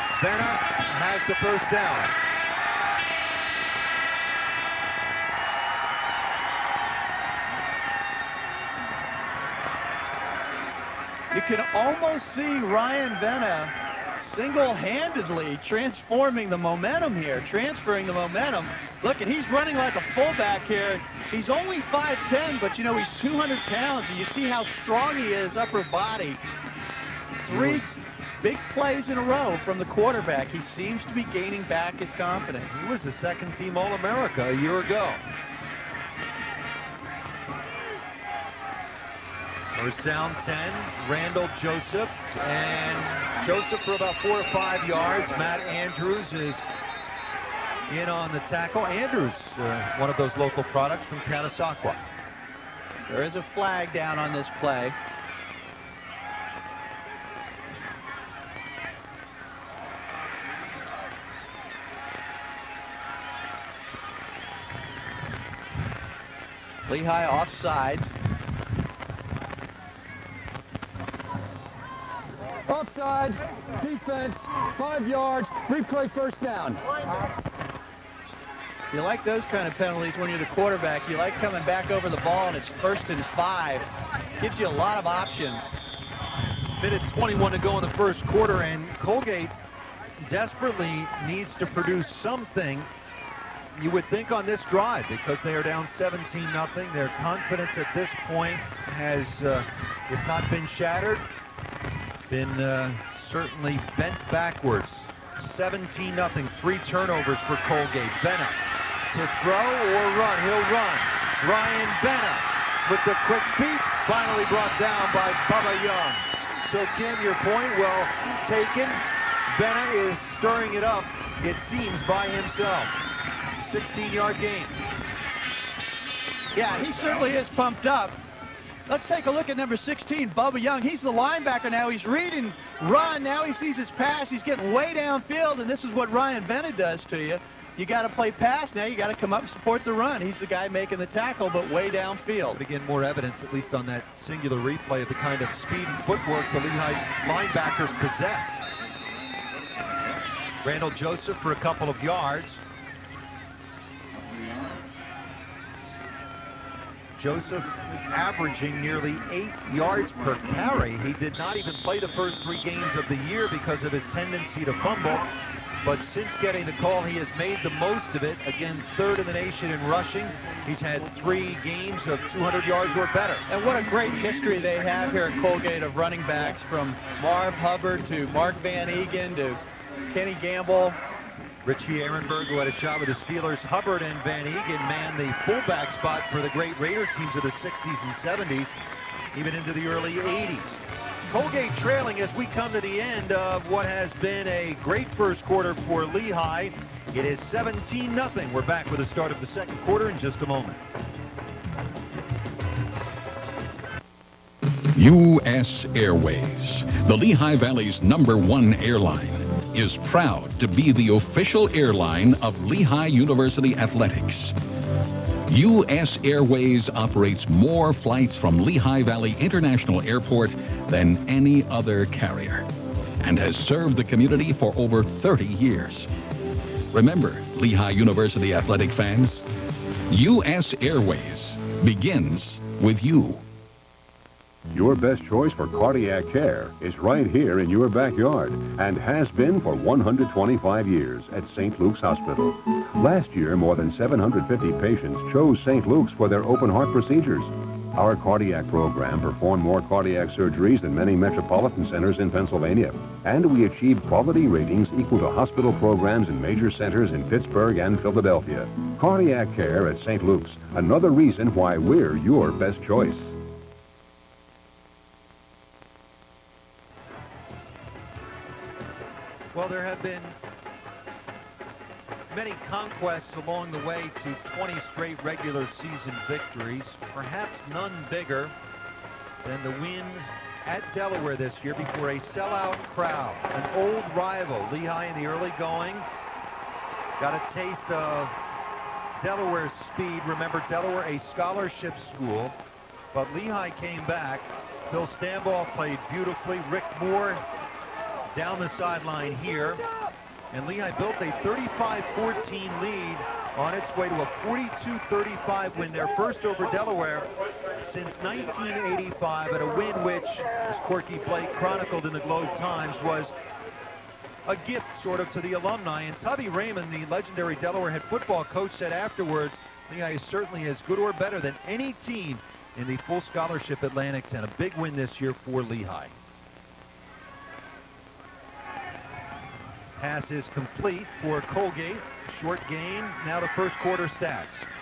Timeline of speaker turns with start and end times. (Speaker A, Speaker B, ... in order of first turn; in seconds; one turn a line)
Speaker A: 0.2-2.2
Speaker B: 11.3-26.4
Speaker B: 27.5-27.9
Speaker A: 27.5-27.9
Speaker B: 28.4-32.7
Speaker A: 32.7-35.2
Speaker A: 39.8-46.6
Speaker A: 47.9-52.0
Speaker B: 53.1-55.0
Speaker B: 66.9-68.1
Speaker C: 72.7-76.8
Speaker B: 78.9-83.9
Speaker B: 84.4-85.7
Speaker A: 86.8-89.5
Speaker A: 90.3-92.9
Speaker A: 93.8-101.2
Speaker A: 102.3-108.6
Speaker A: 109.1-123.0
Speaker A: 123.6-124.8
Speaker B: 126.5-128.2
Speaker B: 128.9-142.6
Speaker A: 142.6-148.6
Speaker A: 150.6-152.6
Speaker A: 157.2-165.3
Speaker A: 165.8-173.4
Speaker B: 173.5-181.0
Speaker A: 181.6-188.7
Speaker A: 189.3-200.8
Speaker D: 205.0-214.6
Speaker D: 215.5-222.7
Speaker D: 223.2-226.1
Speaker D: 226.9-229.5
Speaker D: 230.1-233.4
Speaker E: 234.7-263.4
Speaker A: 269.5-270.4
Speaker A: 272.3-278.5
Speaker A: 279.4-286.1
Speaker A: 287.2-288.4
Speaker A: 289.2-292.6
Speaker A: 293.1-297.4
Speaker A: 298.3-299.8
Speaker A: 300.5-313.3
Speaker A: 314.5-326.1
Speaker A: 330.0-334.7